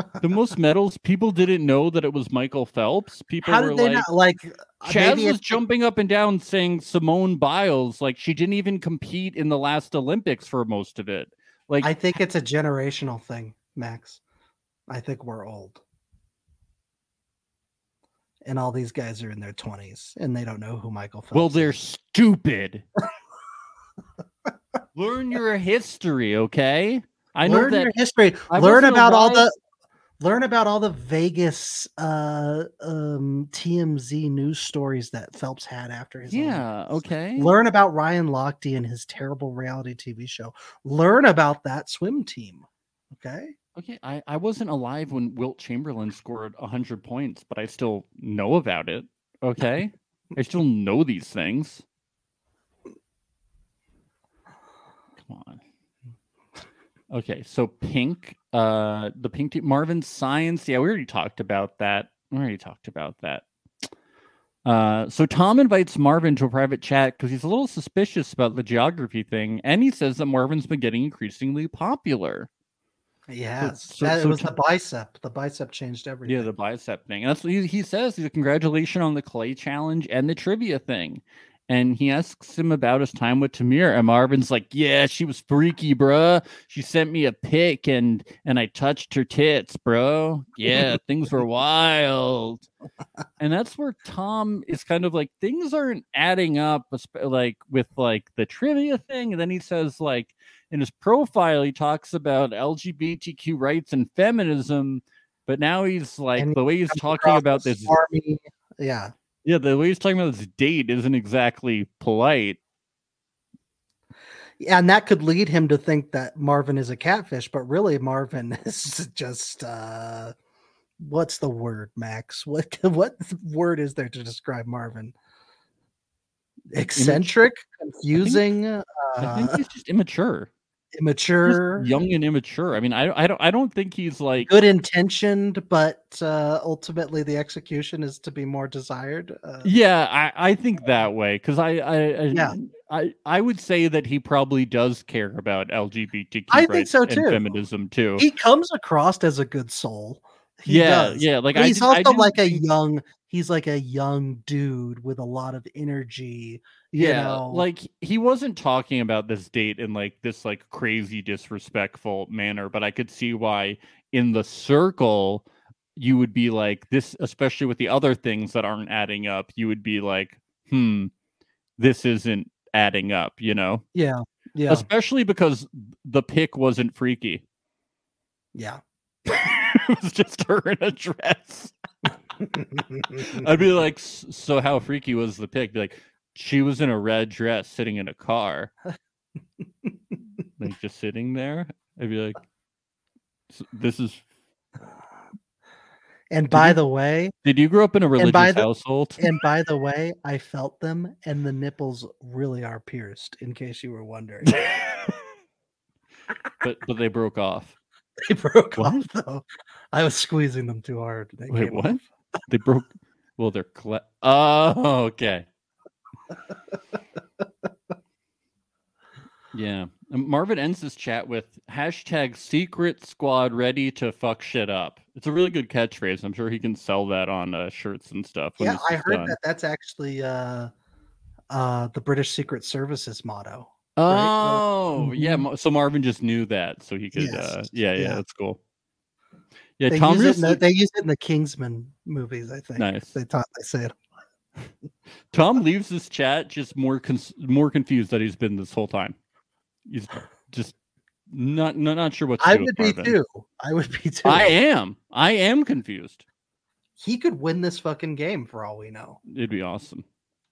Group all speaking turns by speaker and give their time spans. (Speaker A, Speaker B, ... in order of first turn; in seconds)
Speaker A: 0.2-4.1, 4.8-11.9, 21.3-22.8, 24.9-27.9, 28.5-29.5, 36.3-37.5, 43.8-51.8, 55.2-55.6, 57.1-63.4, 64.6-72.5, 73.6-74.5, 76.2-92.7, 93.4-107.9, 109.4-112.6, 126.9-127.3, 128.2-128.4, 129.2-130.5, 131.4-134.5, 139.6-148.3, 150.7-152.6, 156.9-165.4, 165.9-171.1, 171.8-173.8, 174.7-177.4, 179.2-181.7, 183.1-188.7, 190.6-192.4, 193.5-194.2, 196.5-196.8, 197.4-199.3, 204.5-205.1, 206.6-207.8, 208.8-209.0, 211.5-215.4, 219.5-229.3, 234.0-238.6, 239.8-240.6, 242.8-243.2, 245.3-249.2, 249.8-250.7, 251.3-253.2, 254.2-256.2, 259.3-260.0
Speaker B: 3.4-5.6, 11.8-14.2, 14.9-15.8, 18.4-21.7, 27.4-29.5, 30.2-43.5, 73.3-76.5, 106.4-109.1, 114.6-120.3, 121.0-125.1, 126.7-129.6, 130.9-131.9, 134.4-139.7, 146.5-147.4, 148.2-157.7, 173.9-174.8, 178.5-178.8, 182.4-183.3, 196.3-197.3, 198.2-198.7, 199.2-204.6, 208.2-212.0, 228.6-230.7, 231.5-235.4, 237.1-238.2, 239.9-243.9, 252.4-254.5, 257.0-259.2